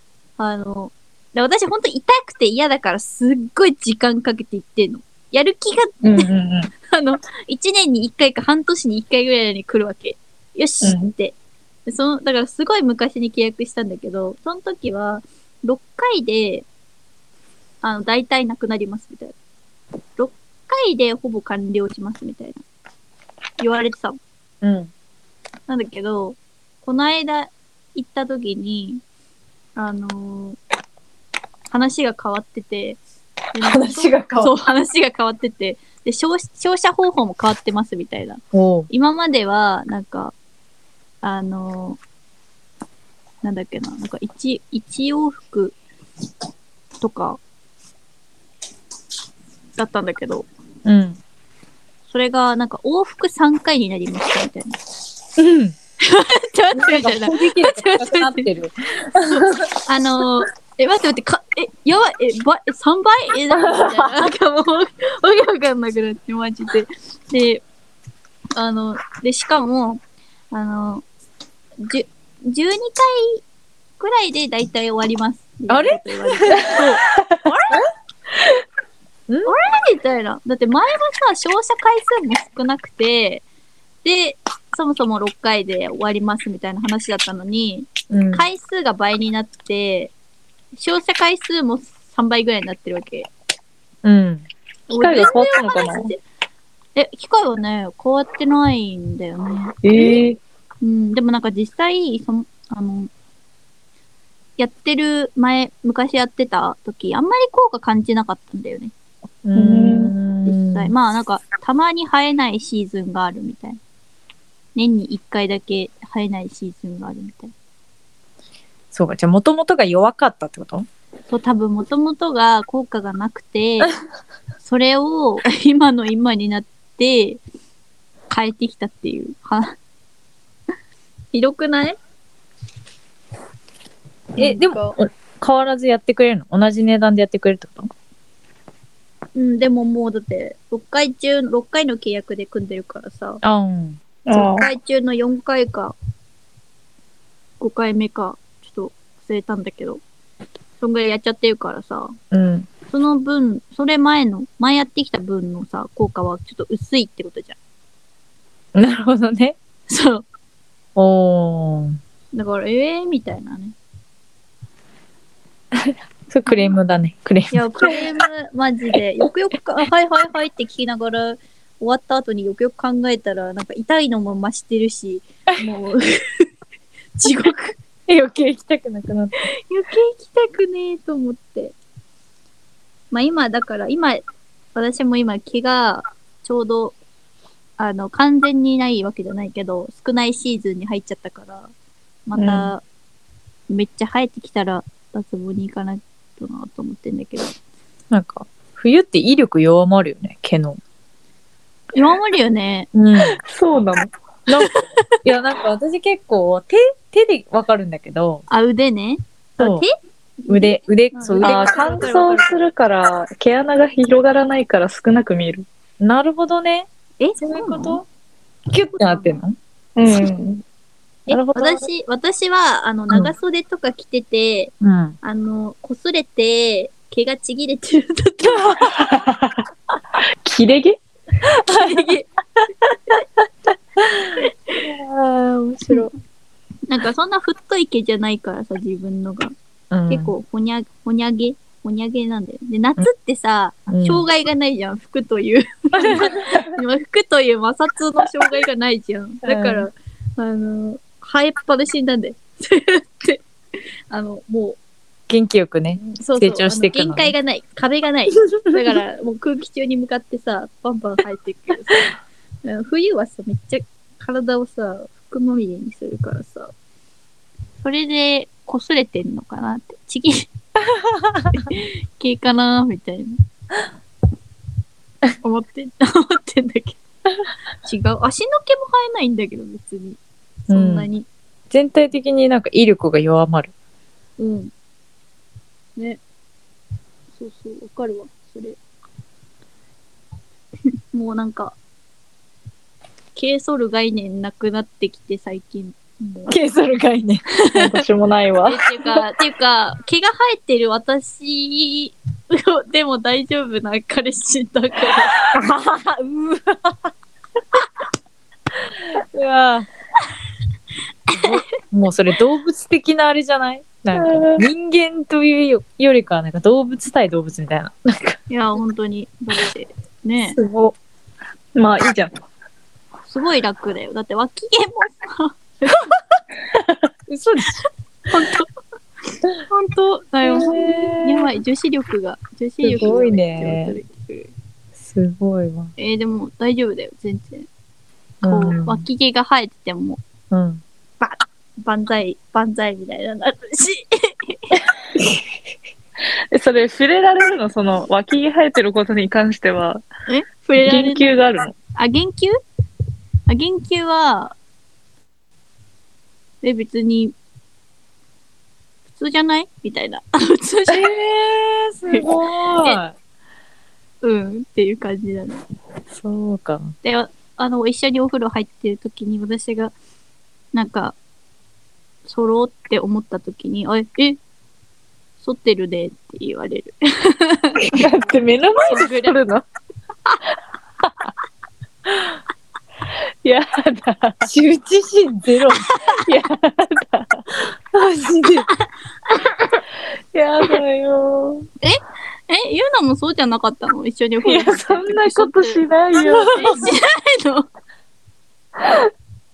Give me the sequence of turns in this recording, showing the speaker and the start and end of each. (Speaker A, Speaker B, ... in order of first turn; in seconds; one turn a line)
Speaker A: 0.4-6.3
Speaker B: 6.0-6.7
Speaker A: 6.9-11.3
Speaker B: 10.8-11.1
Speaker A: 11.9-16.7
Speaker A: 17.8-19.3
Speaker A: 20.2-22.6
Speaker A: 23.6-24.2
Speaker C: 24.6-24.9
Speaker A: 25.7-29.0
Speaker A: 29.8-30.6
Speaker A: 31.7-33.0
Speaker A: 33.5-40.3
Speaker C: 33.6-34.5
Speaker C: 38.5-38.9
Speaker A: 41.2-42.0
Speaker A: 43.4-45.8
Speaker A: 47.0-47.4
Speaker A: 49.8-50.5
Speaker C: 50.8-51.2
Speaker A: 52.1-54.8
Speaker C: 55.4-55.8
Speaker A: 56.0-58.5
Speaker C: 56.7-59.3
Speaker A: 59.3-67.6
Speaker A: 68.5-71.0
Speaker A: 71.8-73.4
Speaker A: 74.0-77.8
Speaker C: 75.7-76.7
Speaker C: 79.3-79.5
Speaker A: 79.5-83.4
Speaker A: 84.0-90.1
Speaker C: 88.1-88.4
Speaker A: 90.8-93.3
Speaker C: 94.0-94.5
Speaker A: 94.9-96.2
Speaker B: 94.9-96.1
Speaker A: 96.9-100.2
Speaker B: 99.8-100.4
Speaker A: 100.8-103.1
Speaker A: 104.6-108.9
Speaker C: 109.4-110.9
Speaker B: 109.5-110.1
Speaker A: 110.5-113.8
Speaker A: 114.7-117.5
Speaker C: 118.9-120.9
Speaker A: 121.3-123.9
Speaker A: 124.6-127.4
Speaker A: 128.3-129.8
Speaker A: 131.3-132.0
Speaker A: 134.3-135.0
Speaker C: 134.4-137.9
Speaker A: 139.3-143.4
Speaker C: 143.4-144.0
Speaker B: 144.2-144.7
Speaker A: 144.3-145.9
Speaker A: 147.6-150.0
Speaker A: 150.8-152.2
Speaker C: 152.3-152.7
Speaker A: 152.9-157.6
Speaker C: 158.7-159.6
Speaker A: 159.9-160.2
Speaker C: 160.9-162.0
Speaker A: 162.3-163.7
Speaker C: 165.7-168.1
Speaker A: 166.4-166.8
Speaker A: 167.5-176.5
Speaker A: 177.2-177.8
Speaker C: 178.1-179.5
Speaker A: 179.4-181.7
Speaker A: 183.1-184.2
Speaker A: 184.7-187.0
Speaker A: 187.8-191.7
Speaker A: 192.3-192.8
Speaker A: 193.7-197.5
Speaker C: 198.1-200.8
Speaker A: 201.9-202.9
Speaker C: 202.9-203.4
Speaker B: 203.4-204.1
Speaker C: 204.5-208.4
Speaker A: 204.6-204.8
Speaker A: 208.5-212.5
Speaker C: 209.6-209.8
Speaker C: 210.5-211.9
Speaker B: 211.4-215.7
Speaker C: 216.0-216.9
Speaker A: 217.2-218.0
Speaker C: 217.4-218.0
Speaker C: 218.7-219.6
Speaker A: 218.9-219.4
Speaker B: 219.9-220.6
Speaker A: 221.3-228.9
Speaker C: 221.3-221.9
Speaker C: 224.8-225.2
Speaker B: 229.0-229.6
Speaker B: 230.4-231.0
Speaker A: 231.6-232.3
Speaker C: 231.7-232.1
Speaker C: 234.0-236.1
Speaker A: 234.4-234.8
Speaker A: 236.9-239.5
Speaker C: 239.9-240.3
Speaker A: 240.1-253.4
Speaker C: 243.9-244.2
Speaker C: 246.0-246.7
Speaker C: 249.4-249.9
Speaker A: 254.1-254.8
Speaker C: 255.3-257.3
Speaker A: 256.0-262.1
Speaker A: 262.6-266.7
Speaker A: 267.8-270.5
Speaker C: 270.9-271.5
Speaker A: 271.5-273.4
Speaker A: 275.4-277.0
Speaker A: 277.8-281.3
Speaker C: 280.7-281.1
Speaker C: 281.7-283.7
Speaker A: 284.4-284.7
Speaker A: 287.4-288.8
Speaker A: 291.1-291.8
Speaker A: 293.4-296.5
Speaker C: 296.5-297.4
Speaker A: 297.6-297.9
Speaker B: 297.7-298.9
Speaker A: 298.6-305.3
Speaker C: 305.4-307.1
Speaker C: 308.9-309.9
Speaker A: 311.3-311.6
Speaker C: 311.3-318.4
Speaker B: 314.1-314.6
Speaker A: 318.5-320.6
Speaker C: 320.4-320.9
Speaker B: 321.8-322.4
Speaker A: 323.3-326.1
Speaker C: 327.3-327.8
Speaker A: 328.3-328.7
Speaker A: 329.7-334.5
Speaker C: 330.4-331.5
Speaker C: 332.8-333.9
Speaker C: 335.0-335.9
Speaker A: 336.0-337.7
Speaker C: 338.4-339.0
Speaker A: 338.4-340.2
Speaker C: 340.5-340.8
Speaker A: 341.2-344.8
Speaker B: 346.5-350.0
Speaker A: 350.3-351.3
Speaker B: 350.8-351.7
Speaker A: 351.9-352.6
Speaker A: 353.5-354.5
Speaker A: 356.6-357.3
Speaker A: 359.1-361.1
Speaker C: 360.9-363.1
Speaker A: 362.1-363.0
Speaker A: 364.2-365.6
Speaker C: 366.1-366.9
Speaker A: 367.0-369.9
Speaker A: 370.7-371.1
Speaker A: 372.2-374.4
Speaker A: 375.4-378.1
Speaker B: 377.9-379.6
Speaker A: 378.8-379.3
Speaker B: 383.4-384.5
Speaker C: 384.4-385.9
Speaker B: 386.2-387.4
Speaker C: 387.9-388.7
Speaker A: 388.7-389.8
Speaker B: 390.3-391.7
Speaker A: 391.8-397.7
Speaker B: 394.4-396.8
Speaker C: 396.2-396.9